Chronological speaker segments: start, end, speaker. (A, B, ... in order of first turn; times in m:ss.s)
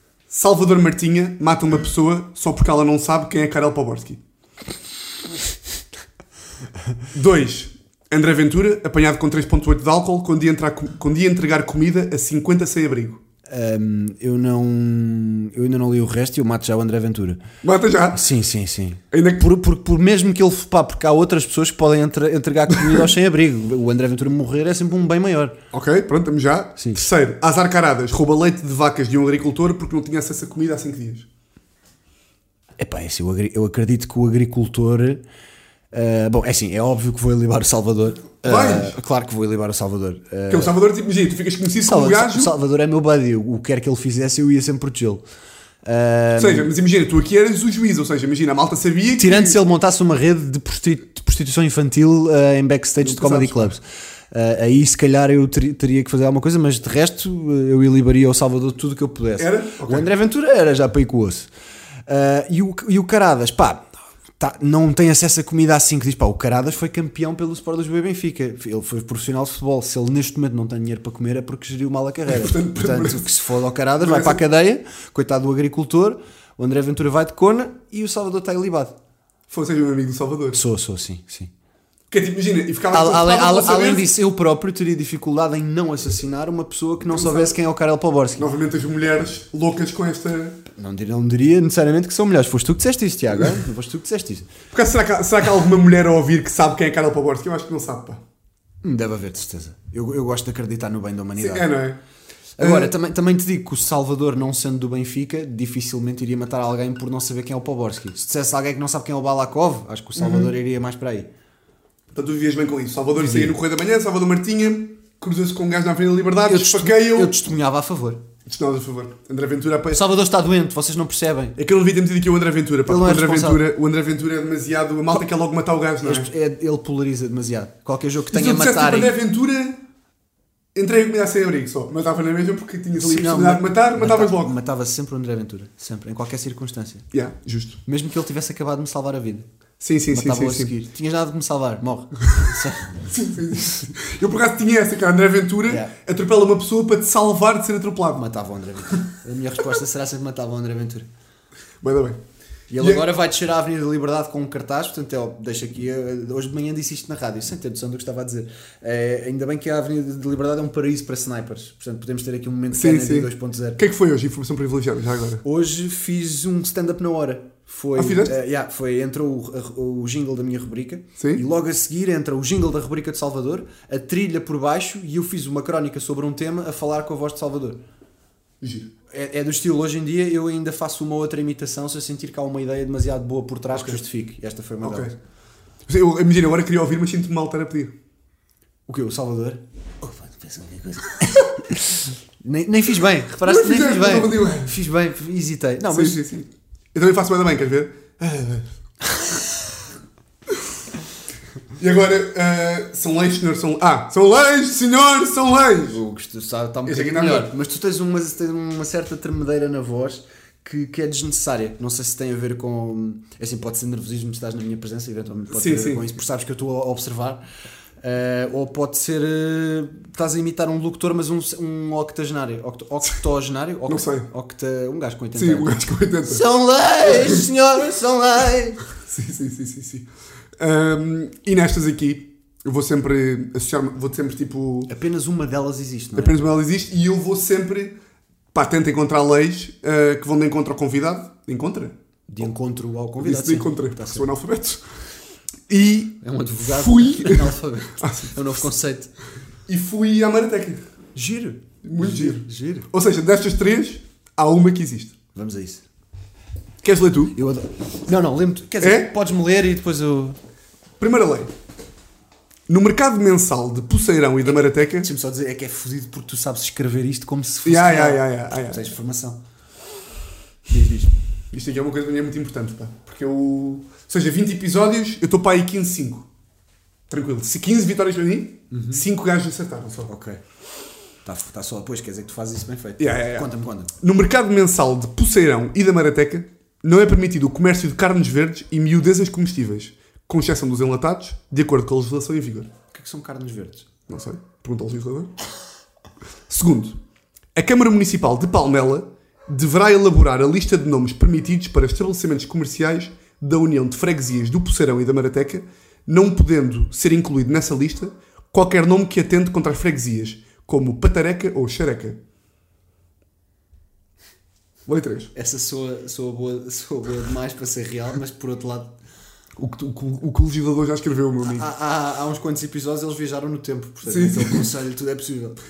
0:00.3-0:04.2 A
0:07.1-0:13.2 A
0:13.5-0:17.4 B
0:17.6-0:18.2 A
0:18.1-0:25.6 B
0:19.1-0:19.5 A
0:25.7-0:31.3 A
0:26.8-0:27.0 B
0:32.8-0:35.2 B
0:35.9-0:40.7 B
0:38.4-0:38.9 A
0:40.5-0:42.5 A
0:41.8-0:45.2 B
0:45.8-0:46.7 B
0:46.4-0:49.6 A
0:49.2-1:01.5 B
0:53.0-0:53.7 A
0:59.4-1:00.1 A
1:02.1-1:03.9 B
1:04.4-1:18.9 B
1:12.3-1:13.3 A
1:14.0-1:14.4 A
1:19.5-1:20.6 A
1:20.5-1:21.5 B
1:22.1-1:24.1 A
1:22.9-1:28.5 B
1:27.1-1:27.6 A
1:28.4-1:30.6 A
1:30.7-1:34.5 B
1:34.7-1:38.2 A
1:38.8-1:41.7 B
1:41.4-1:42.0 A
1:42.6-1:51.3 B
1:42.6-1:42.9 A
1:50.2-1:50.5 A
1:52.1-1:57.3 A
1:53.2-1:53.6 B
1:56.4-1:58.2 B
1:58.4-2:00.0 A
1:59.9-2:01.6 B
2:01.6-2:06.3 A
2:02.9-2:03.6 B
2:06.0-2:09.1 B
2:08.3-2:09.8 A
2:10.7-2:14.5 A
2:13.0-2:17.0 B
2:17.1-2:17.8 A
2:17.8-2:19.4 B
2:19.8-2:20.7 A
2:20.1-2:23.1 B
2:23.0-2:28.2 A
2:25.7-2:25.9 B
2:28.2-2:31.1 B
2:31.8-2:32.2 A
2:32.7-2:43.8 B
2:32.8-2:33.1 A
2:42.7-2:45.4 A
2:45.4-2:57.8 B
2:48.0-2:48.4 A
2:58.6-2:58.9 A
2:59.1-3:05.1 B
3:03.7-3:04.0 A
3:04.8-3:05.1 A
3:05.8-3:07.9 A
3:08.9-3:16.2 B
3:13.4-3:14.8 A
3:15.9-3:18.7 A
3:21.8-3:26.0 A
3:25.9-3:37.4 B
3:26.8-3:27.5 A
3:35.5-3:36.0 A
3:38.0-3:48.8 B
3:43.9-3:44.3 A
3:45.3-3:46.4 A
3:47.1-3:47.4 A
3:49.0-3:54.9 A
3:54.9-3:56.4 B
3:56.2-3:58.0 A
3:58.5-4:02.0 A
4:02.3-4:04.3 B
4:03.2-4:04.9 A
4:05.7-4:08.4 A
4:06.2-4:09.1 B
4:09.7-4:10.8 A
4:11.1-4:12.9 B
4:11.8-4:15.1 A
4:15.3-4:15.8 B
4:16.8-4:17.3 A
4:17.3-4:20.4 B
4:18.8-4:19.1 A
4:21.0-4:21.5 A
4:22.7-4:25.1 A
4:25.0-4:29.4 B
4:27.6-4:28.9 A
4:30.7-4:31.2 B
4:31.5-4:36.3 A
4:37.1-4:40.1 A
4:38.7-4:39.0 B
4:40.1-4:40.4 B
4:41.2-4:43.9 B
4:43.0-4:52.7 A
4:52.9-4:53.9 B
4:54.1-4:55.3 A
4:56.5-4:57.0 A
4:57.5-5:12.2 A
5:14.9-5:15.3 A
5:15.3-5:18.9 B
5:19.6-5:21.7 A
5:21.4-5:25.6 B
5:24.0-5:24.6 A